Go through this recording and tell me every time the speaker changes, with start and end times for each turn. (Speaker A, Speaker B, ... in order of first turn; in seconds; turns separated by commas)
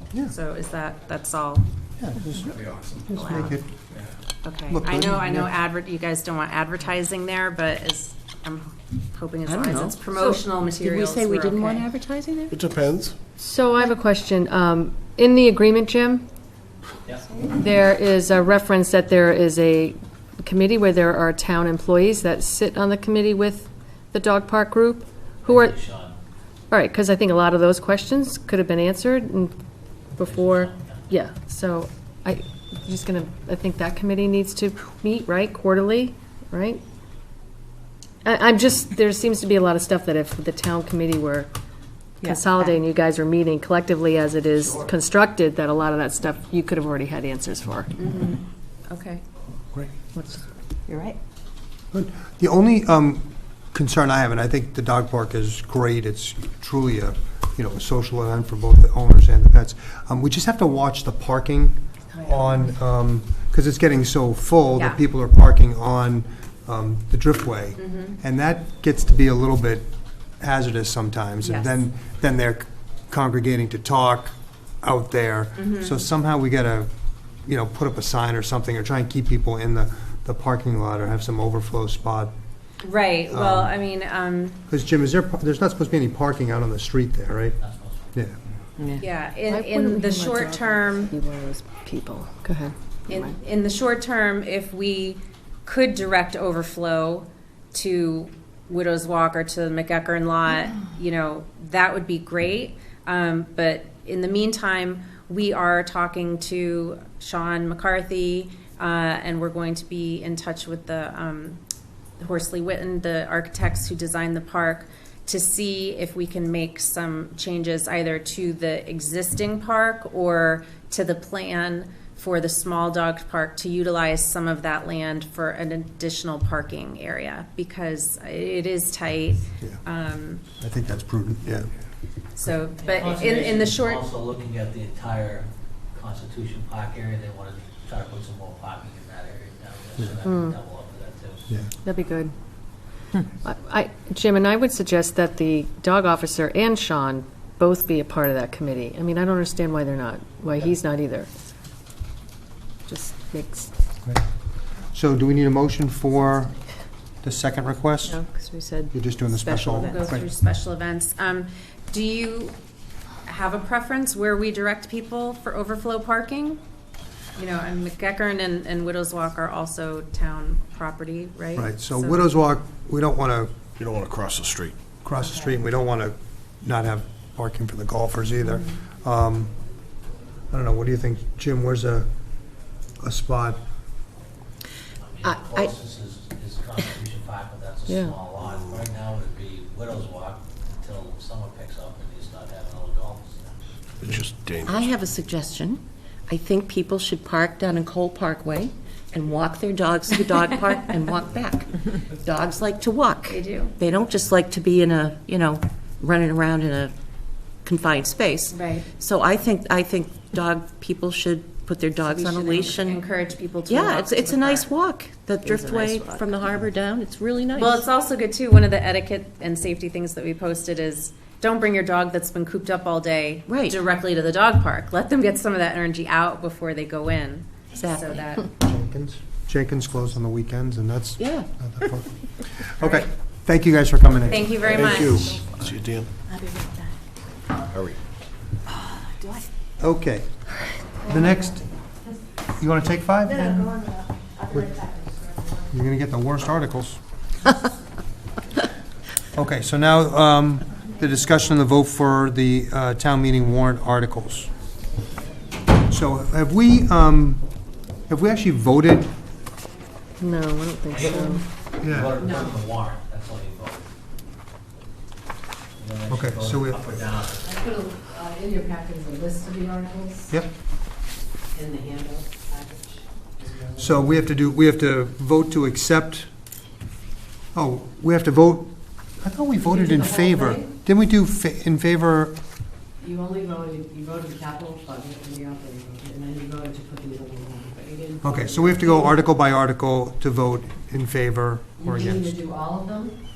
Speaker A: 0.3-1.6, Speaker B: 2.0-3.7, Speaker A: 3.1-3.6, Speaker A: 4.4-11.9, Speaker B: 4.7-5.5, Speaker C: 9.5-12.6, Speaker D: 12.5-13.1, Speaker E: 13.4-16.2, Speaker E: 17.4-25.8, Speaker F: 25.4-26.2, Speaker E: 26.7-29.5, Speaker E: 30.1-36.8, Speaker F: 30.2-31.1, Speaker E: 38.2-41.5, Speaker E: 42.2-48.0, Speaker A: 48.0-49.2, Speaker E: 50.1-50.4, Speaker B: 51.9-69.9, Speaker A: 64.7-65.0, Speaker A: 67.8-68.2, Speaker B: 70.4-76.9, Speaker A: 71.4-71.8, Speaker A: 75.5-76.0, Speaker B: 77.4-82.3, Speaker A: 82.8-84.6, Speaker B: 83.3-83.7, Speaker B: 84.7-87.6, Speaker F: 87.6-88.1, Speaker A: 89.0-91.1, Speaker E: 89.5-93.3, Speaker A: 93.1-111.6, Speaker A: 112.2-130.4, Speaker B: 130.6-131.7, Speaker A: 132.3-134.0, Speaker F: 132.8-141.5, Speaker E: 140.2-140.5, Speaker E: 141.8-142.3, Speaker E: 143.4-151.3, Speaker E: 152.9-153.7, Speaker B: 154.9-158.2, Speaker G: 158.2-160.0, Speaker B: 158.9-160.3, Speaker A: 159.8-162.6, Speaker A: 163.2-166.6, Speaker A: 167.4-172.3, Speaker B: 171.6-173.6, Speaker D: 173.8-174.8, Speaker B: 175.0-179.6, Speaker B: 180.5-182.1, Speaker B: 183.0-183.6, Speaker F: 185.0-193.5, Speaker C: 185.2-185.7, Speaker E: 187.9-188.2, Speaker D: 188.4-188.8, Speaker D: 194.0-194.9, Speaker C: 194.7-206.9, Speaker A: 203.3-203.8, Speaker C: 207.6-213.0, Speaker A: 208.5-208.9, Speaker A: 212.1-214.7, Speaker C: 213.7-217.8, Speaker A: 217.5-228.5, Speaker C: 223.5-223.8, Speaker C: 227.8-228.2, Speaker B: 228.6-235.7, Speaker C: 231.2-231.5, Speaker A: 234.3-235.4, Speaker D: 234.7-236.1, Speaker D: 237.7-238.0, Speaker B: 239.8-243.9, Speaker B: 244.5-247.0, Speaker B: 249.3-254.5, Speaker B: 255.9-257.5, Speaker B: 258.1-259.1, Speaker E: 260.2-261.4, Speaker F: 260.9-263.9, Speaker B: 261.8-262.1, Speaker F: 265.8-267.5, Speaker B: 266.1-266.9, Speaker G: 267.4-270.2, Speaker G: 271.6-273.8, Speaker B: 273.8-276.3, Speaker B: 277.5-282.4, Speaker G: 279.8-280.6, Speaker G: 283.0-289.1, Speaker B: 288.2-292.4, Speaker G: 291.8-293.1